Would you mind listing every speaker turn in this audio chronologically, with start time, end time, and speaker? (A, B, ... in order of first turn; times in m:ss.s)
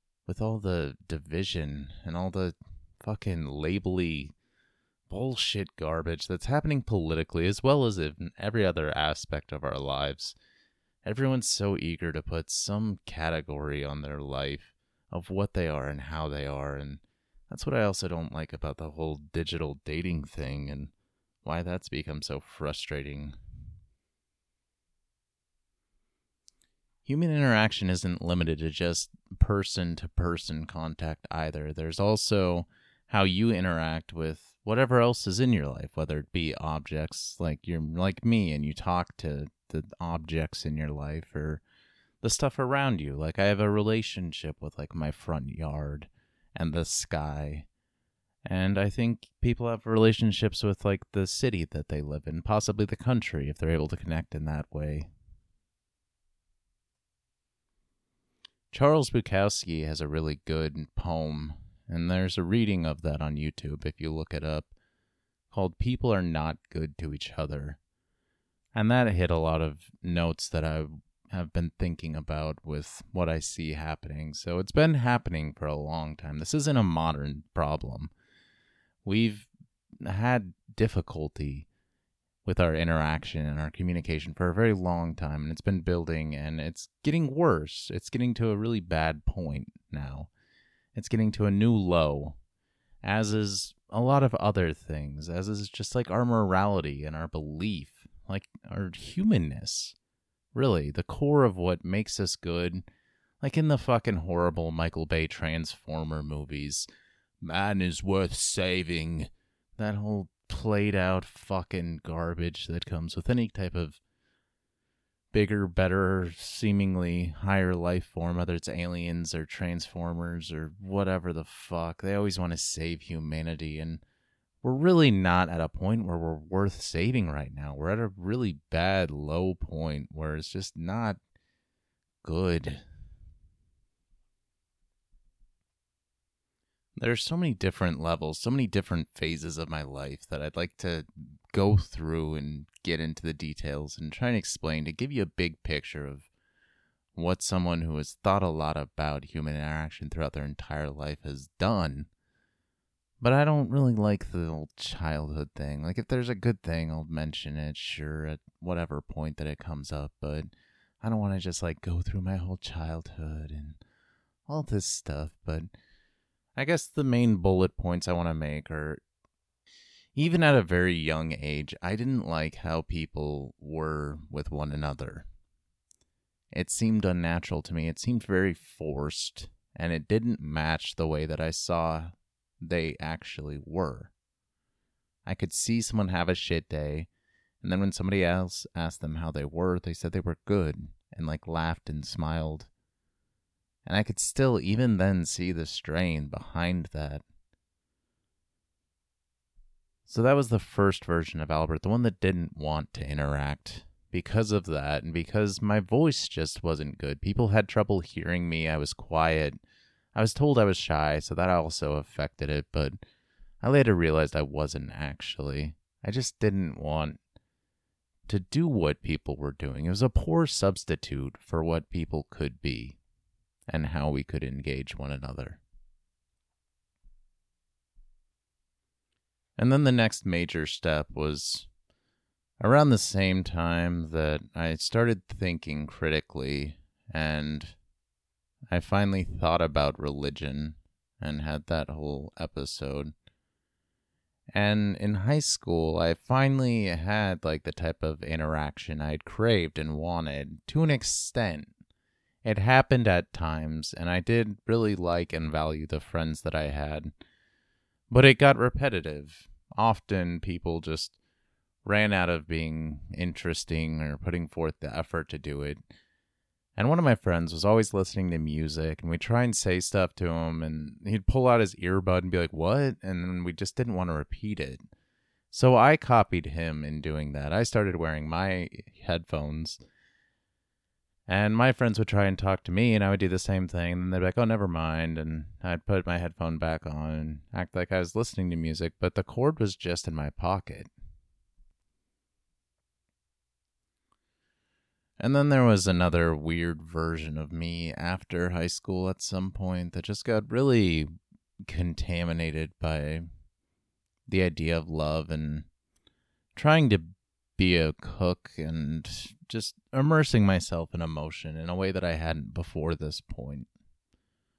0:00.3-0:04.3 A
0:05.1-0:10.4 A
0:11.0-0:20.9 A
0:21.4-0:23.4 A
0:27.1-0:41.6 A
0:42.2-0:47.7 A
0:48.5-0:55.1 A
0:58.7-1:04.7 A
1:05.5-1:07.8 A
1:08.8-1:18.1 A
1:19.0-1:19.5 A
1:20.0-1:21.7 A
1:22.4-1:30.3 A
1:31.0-1:32.4 A
1:33.0-1:40.0 A
1:40.5-1:42.8 A
1:43.4-1:46.9 A
1:47.4-1:54.0 A
1:55.3-2:04.0 A
2:04.6-2:11.2 A
2:12.2-2:12.8 A
2:17.0-2:26.3 A
2:27.2-2:32.1 A
2:33.2-2:40.5 A
2:41.0-2:43.8 A
2:44.5-2:45.7 A
2:46.6-2:49.0 A
2:50.2-2:55.3 A
2:56.5-3:04.1 A
3:05.2-3:07.1 A
3:07.6-3:12.7 A
3:13.8-3:17.2 A
3:20.1-3:29.6 A
3:30.2-3:33.0 A
3:33.6-3:37.2 A
3:38.3-3:43.0 A
3:43.7-3:45.6 A
3:49.6-3:51.7 A
3:52.6-3:57.8 A
3:58.7-4:03.1 A
4:04.5-4:11.7 A
4:12.4-4:17.1 A
4:18.1-4:21.2 A
4:21.8-4:25.8 A
4:26.8-4:34.8 A
4:35.5-4:39.8 A
4:41.3-4:50.9 A
4:55.2-5:01.1 A
5:01.7-5:03.2 A
5:04.3-5:05.7 A
5:06.6-5:13.7 A